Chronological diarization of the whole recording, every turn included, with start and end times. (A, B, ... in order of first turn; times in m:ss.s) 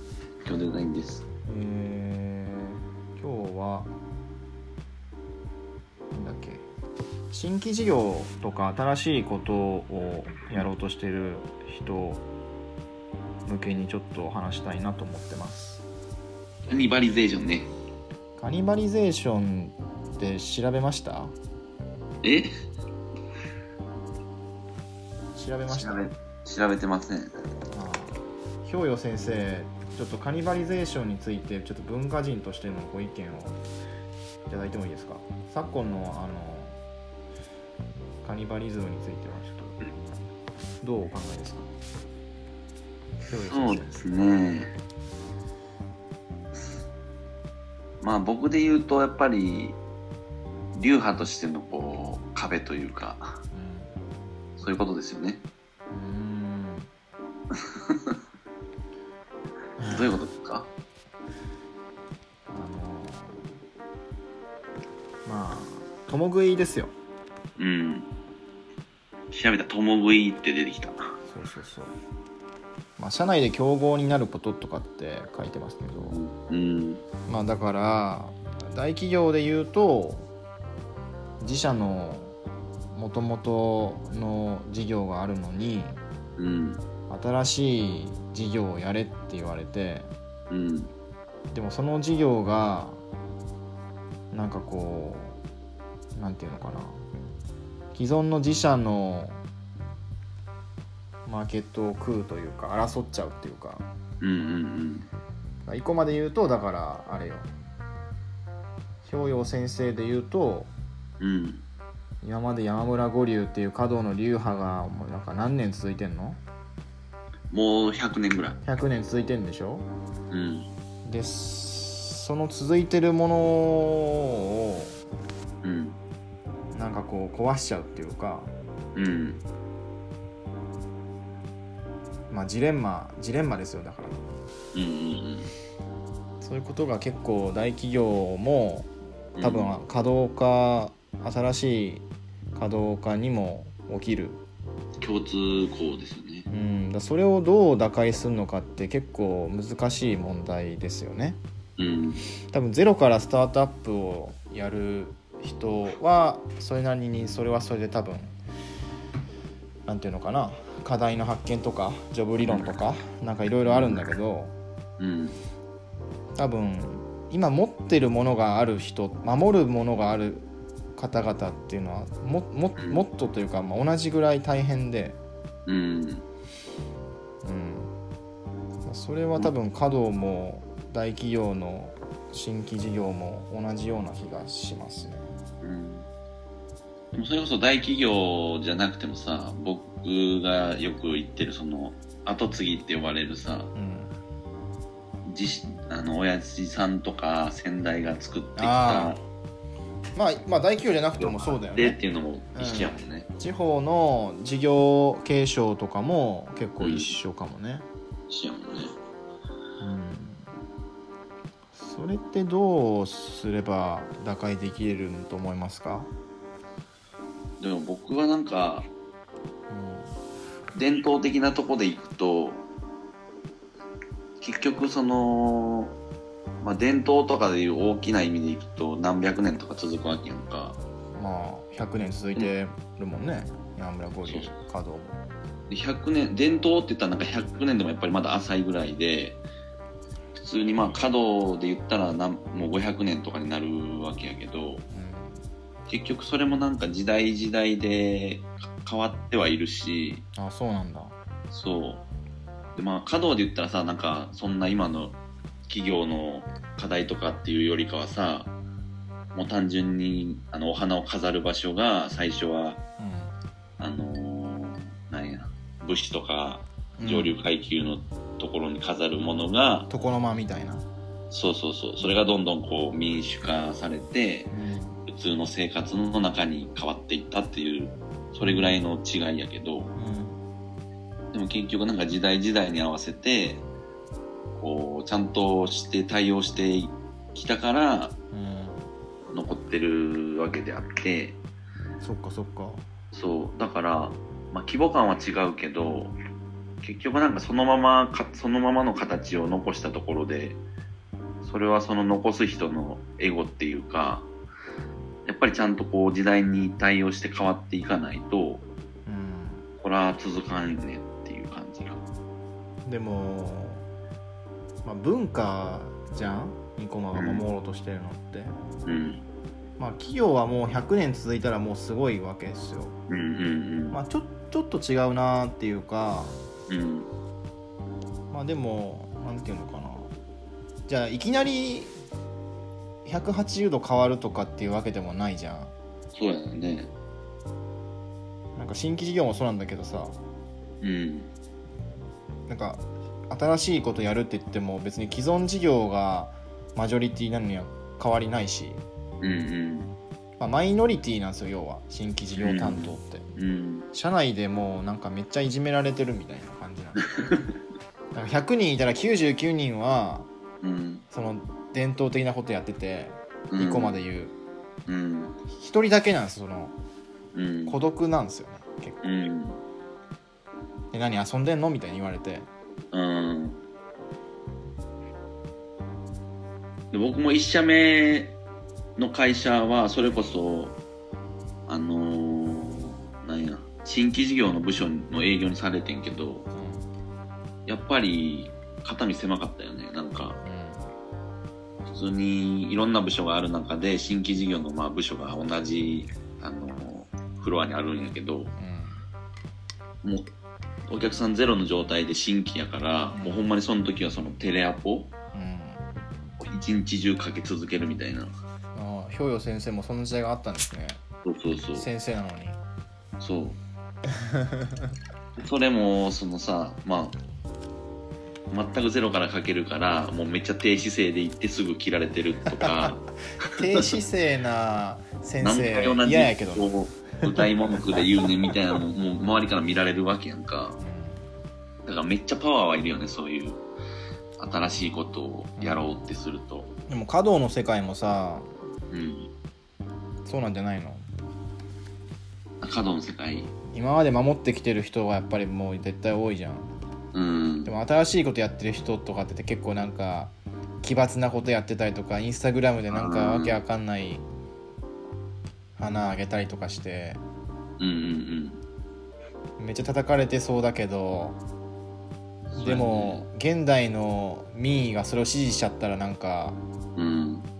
0:00.4-0:01.2 A
0:01.4-0:03.9 B
0:06.1-0:06.6 B
0:07.3-0:12.2 B
0:13.4-0:15.8 B
0:16.7-0:17.7 A
0:18.4-0:21.3 B
0:22.2-0:22.5 A
0:25.3-0:26.1 B
0:25.7-0:27.3 A
0:27.7-0:33.6 B
0:34.5-0:36.8 B
0:38.2-0:39.8 B
0:40.8-0:41.7 B
0:43.3-0:44.1 B
0:43.5-0:44.7 A
0:48.0-0:49.8 A
0:50.7-0:53.4 A
0:53.5-0:53.9 B
0:54.6-0:55.4 A
0:55.9-0:56.9 B
0:57.5-0:58.2 A
0:59.8-1:00.2 B
0:59.9-1:00.7 A
1:02.5-1:03.5 B
1:05.2-1:06.9 B
1:07.6-1:08.1 A
1:09.3-1:11.0 A
1:11.3-1:11.9 B
1:13.0-1:16.2 B
1:16.0-1:17.0 A
1:17.3-1:20.3 B
1:21.4-1:22.3 B
1:22.9-1:26.0 B
1:26.4-1:26.8 A
1:27.1-1:30.1 B
1:30.5-1:30.9 A
1:31.5-1:33.0 B
1:34.3-1:35.4 B
1:36.2-1:37.0 B
1:37.9-1:39.4 B
1:41.2-1:43.9 B
1:44.2-1:45.1 A
1:45.6-1:47.5 B
1:49.0-1:50.7 B
1:51.2-1:51.6 A
1:52.2-1:56.4 B
1:57.5-1:58.6 A
1:58.6-1:59.8 B
2:00.3-2:00.7 A
2:01.0-2:05.0 B
2:05.6-2:06.0 A
2:06.7-2:08.5 B
2:08.9-2:09.4 A
2:12.3-2:14.2 B
2:14.7-2:15.5 A
2:16.4-2:18.9 B
2:19.4-2:19.8 A
2:19.4-2:24.4 B
2:25.0-2:26.5 A
2:26.5-2:31.4 B
2:31.8-2:32.2 A
2:32.5-2:38.4 B
2:39.8-2:44.5 B
2:43.6-2:44.0 A
2:45.0-2:45.4 A
2:46.4-2:55.2 B
2:55.6-2:56.2 A
2:57.4-2:57.9 B
2:58.8-3:05.3 B
3:05.6-3:06.1 A
3:07.1-3:13.7 A
3:13.7-3:14.1 B
3:15.2-3:19.2 A
3:18.6-3:19.2 B
3:20.2-3:22.0 B
3:21.2-3:23.3 A
3:22.5-3:27.8 B
3:26.8-3:27.1 A
3:28.3-3:28.9 A
3:29.8-3:30.5 B
3:31.7-3:36.1 B
3:37.6-3:38.9 A
3:39.7-3:40.1 B
3:40.7-3:42.6 A
3:44.4-3:45.9 A
3:46.6-3:50.8 A
3:51.2-3:55.2 B
3:54.2-3:54.5 A
3:55.7-3:59.4 A
4:00.3-4:04.8 A
4:04.9-4:05.4 B
4:05.9-4:10.2 A
4:10.4-4:11.1 B
4:11.5-4:12.0 A
4:12.7-4:15.2 A
4:15.7-4:18.5 A
4:19.3-4:22.8 A
4:23.0-4:23.3 B
4:23.8-4:29.9 A
4:27.0-4:27.4 B
4:29.9-4:30.8 B
4:31.3-4:34.5 A
4:34.5-4:35.0 B
4:35.0-4:39.9 A
4:38.4-4:38.8 B
4:40.0-4:40.4 B
4:41.3-4:43.6 A
4:44.6-4:48.1 A
4:48.3-4:48.9 B
4:49.3-4:51.4 A
4:52.0-4:52.9 B
4:53.1-4:56.1 A
4:56.8-5:00.6 A
5:01.4-5:04.3 A
5:05.2-5:08.6 A
5:09.0-5:09.6 B
5:09.8-5:12.0 A
5:12.8-5:13.8 B
5:14.8-5:18.5 B
5:17.1-5:17.4 A
5:18.8-5:19.2 A
5:19.8-5:23.0 B
5:23.1-5:24.0 A
5:23.9-5:26.4 B
5:26.7-5:27.1 A
5:28.3-5:30.1 B
5:30.9-5:31.9 B
5:33.0-5:35.7 B
5:36.1-5:36.9 A
5:38.6-5:40.2 B
5:40.8-5:41.3 A
5:42.5-5:48.8 B
5:49.2-5:49.9 A
5:50.4-5:53.3 B
5:52.4-5:53.9 A
5:53.9-5:57.1 B
5:57.2-5:57.5 A
5:58.1-6:00.3 B
6:00.6-6:01.0 A
6:01.1-6:04.3 B
6:03.5-6:04.0 A
6:04.9-6:05.4 A
6:05.5-6:06.7 B
6:07.3-6:07.8 A
6:07.7-6:09.1 B
6:09.0-6:09.6 A
6:10.9-6:12.5 B
6:12.9-6:13.6 A
6:16.9-6:18.3 A
6:19.0-6:20.8 A
6:21.7-6:26.4 A
6:26.5-6:26.9 B
6:27.6-6:30.4 A
6:30.4-6:30.9 B
6:31.9-6:38.5 A
6:38.6-6:39.0 B
6:40.9-6:45.1 A
6:43.1-6:43.5 B
6:45.3-6:45.8 B
6:46.4-6:48.3 A
6:48.7-6:51.0 B
6:51.2-6:51.9 A
6:51.7-6:52.6 B
6:53.2-6:53.6 A
6:54.1-6:54.9 B
6:55.4-6:57.2 A
6:58.5-7:03.0 A
7:02.5-7:08.5 B
7:03.6-7:03.9 A
7:05.4-7:10.8 A
7:10.8-7:11.2 B
7:11.8-7:13.6 A
7:14.4-7:16.7 A
7:15.6-7:16.0 B
7:16.9-7:18.5 B
7:18.9-7:19.3 A
7:20.2-7:21.0 B
7:22.6-7:23.5 A
7:23.7-7:26.7 B
7:27.1-7:27.7 A
7:27.6-7:34.2 B
7:32.9-7:33.6 A
7:35.8-7:37.2 B
7:37.8-7:38.6 A
7:39.6-7:41.4 B
7:42.5-7:43.2 A
7:42.6-7:46.6 B
7:47.0-7:47.5 A